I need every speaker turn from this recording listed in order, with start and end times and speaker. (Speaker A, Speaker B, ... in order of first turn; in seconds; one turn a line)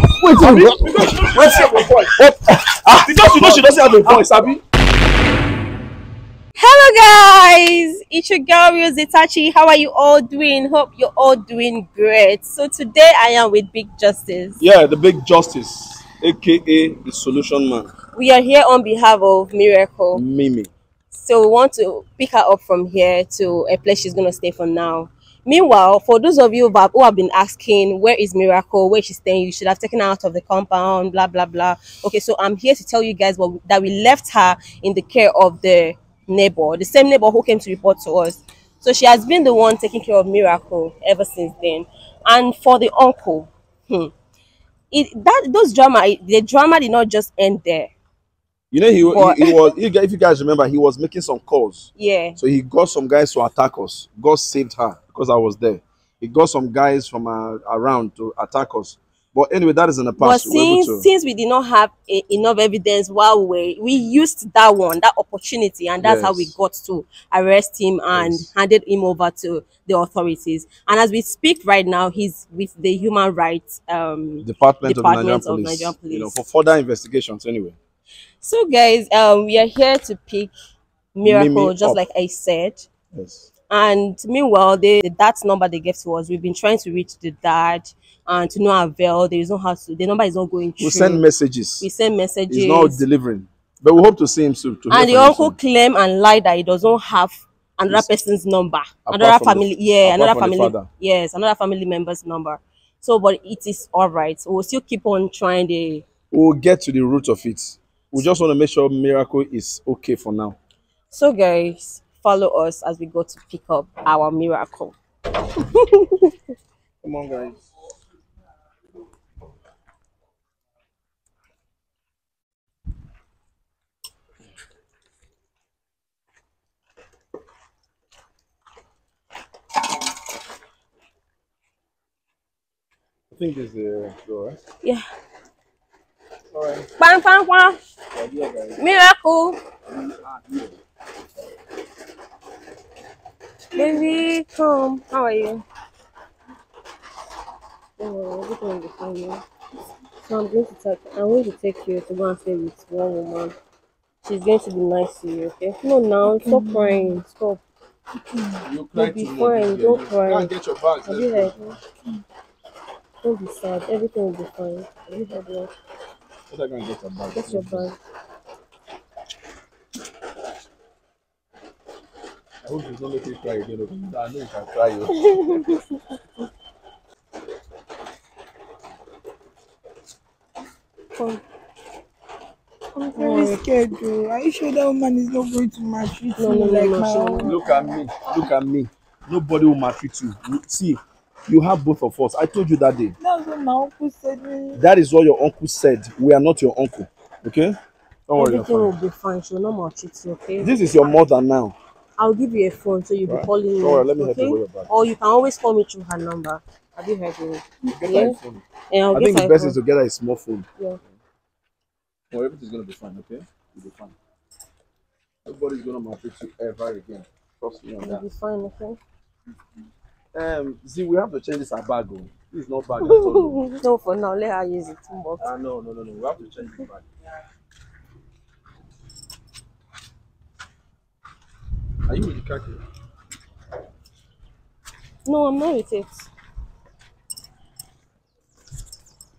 Speaker A: 0.2-4.6
Speaker B: 0.2-0.6
Speaker C: 6.6-14.6
Speaker A: 14.6-17.9
Speaker C: 18.1-20.2
Speaker A: 20.1-20.7
Speaker C: 21.1-44.1
Speaker C: 44.9-47.9
Speaker A: 48.7-61.1
Speaker C: 49.0-49.7
Speaker C: 52.0-52.4
Speaker C: 60.2-76.4
Speaker A: 66.0-66.5
Speaker A: 68.1-68.5
Speaker A: 74.4-77.8
Speaker C: 78.4-80.5
Speaker C: 81.1-82.9
Speaker A: 81.2-82.0
Speaker A: 83.1-83.5
Speaker C: 83.7-91.2
Speaker A: 90.8-91.9
Speaker C: 91.8-93.0
Speaker A: 92.5-95.5
Speaker C: 94.9-106.0
Speaker A: 99.1-100.9
Speaker A: 106.3-110.6
Speaker C: 111.1-115.0
Speaker C: 115.5-116.3
Speaker A: 117.0-117.6
Speaker A: 133.3-134.6
Speaker A: 136.5-136.9
Speaker C: 137.0-137.8
Speaker A: 138.1-138.8
Speaker C: 138.8-139.6
Speaker A: 139.9-140.7
Speaker C: 143.7-145.6
Speaker C: 148.0-149.4
Speaker C: 150.2-153.5
Speaker C: 154.2-157.6
Speaker B: 156.4-157.1
Speaker A: 158.6-161.8
Speaker C: 158.9-160.5
Speaker C: 161.0-161.8
Speaker C: 163.2-165.7
Speaker A: 166.5-167.9
Speaker C: 167.3-168.0
Speaker A: 172.6-175.8
Speaker C: 175.1-176.0
Speaker C: 181.2-181.4
Speaker C: 182.9-183.6
Speaker B: 183.2-187.9
Speaker C: 186.4-187.6
Speaker A: 187.4-193.1
Speaker B: 193.2-194.8
Speaker A: 194.7-197.8
Speaker A: 198.3-198.9
Speaker C: 198.3-201.1
Speaker A: 200.6-201.8
Speaker C: 202.2-208.4
Speaker A: 203.3-204.9
Speaker A: 207.8-210.7
Speaker C: 208.9-209.8
Speaker A: 212.3-214.2
Speaker A: 215.4-218.2
Speaker C: 218.0-219.0
Speaker A: 220.3-223.6
Speaker C: 223.0-225.5
Speaker A: 225.4-227.1
Speaker A: 232.1-232.8
Speaker C: 235.2-236.3